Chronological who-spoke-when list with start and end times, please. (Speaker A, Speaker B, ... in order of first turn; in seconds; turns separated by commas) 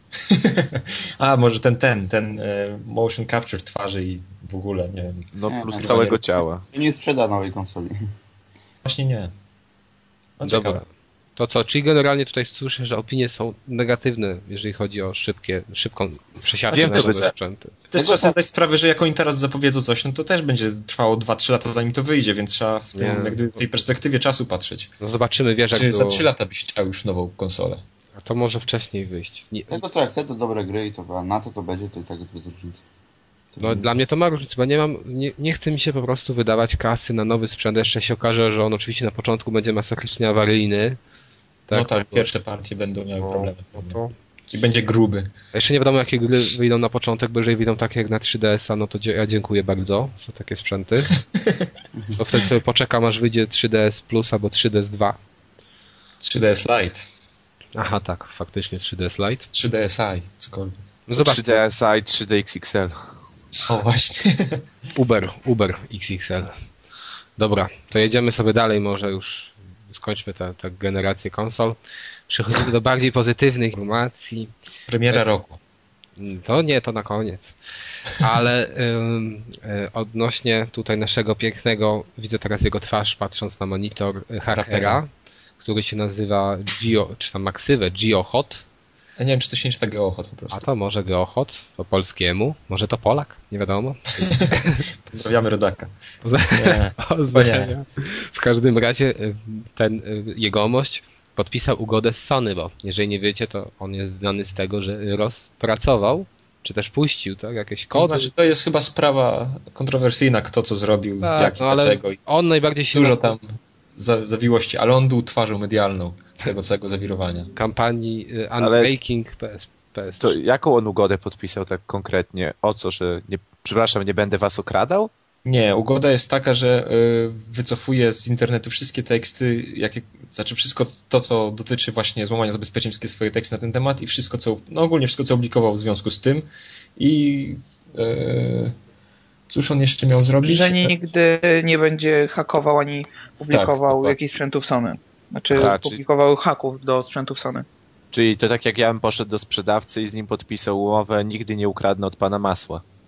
Speaker A: 0.3-6.2, Speaker B: 5.3-6.7, Speaker C: 5.5-6.2, Speaker C: 6.7-8.0, Speaker A: 8.9-9.3, Speaker A: 10.4-10.8, Speaker D: 10.4-10.8, Speaker D: 11.4-17.8, Speaker B: 16.7-17.3, Speaker A: 17.9-24.9, Speaker C: 18.0-18.3, Speaker D: 22.9-23.6, Speaker D: 25.0-26.3, Speaker A: 25.7-27.8, Speaker D: 28.2-29.8, Speaker C: 29.7-32.8, Speaker D: 33.6-41.0, Speaker D: 41.7-42.3, Speaker A: 41.7-44.0, Speaker D: 43.2-44.1, Speaker A: 44.5-45.3, Speaker D: 45.5-51.2, Speaker A: 51.4-51.7, Speaker D: 52.2-55.2, Speaker A: 56.2-57.0, Speaker D: 57.8-59.5, Speaker A: 59.5-60.8, Speaker D: 61.1-61.6, Speaker B: 61.2-63.1, Speaker A: 63.7-64.6, Speaker D: 65.0-66.5, Speaker D: 67.4-71.8, Speaker D: 72.3-74.5, Speaker A: 74.9-75.6, Speaker D: 76.2-77.5, Speaker D: 78.2-85.1, Speaker A: 84.5-85.0, Speaker D: 85.6-88.6, Speaker A: 89.2-90.7, Speaker D: 90.5-94.8, Speaker A: 94.2-95.9, Speaker D: 96.2-108.3, Speaker A: 96.5-97.7, Speaker A: 107.9-112.2, Speaker D: 111.2-113.3, Speaker A: 112.9-117.5, Speaker D: 117.5-120.4, Speaker B: 118.6-118.9, Speaker B: 120.2-125.1, Speaker A: 125.5-138.8, Speaker A: 139.5-140.9, Speaker E: 140.4-147.7, Speaker A: 143.5-144.2, Speaker B: 145.5-146.0, Speaker B: 148.1-152.8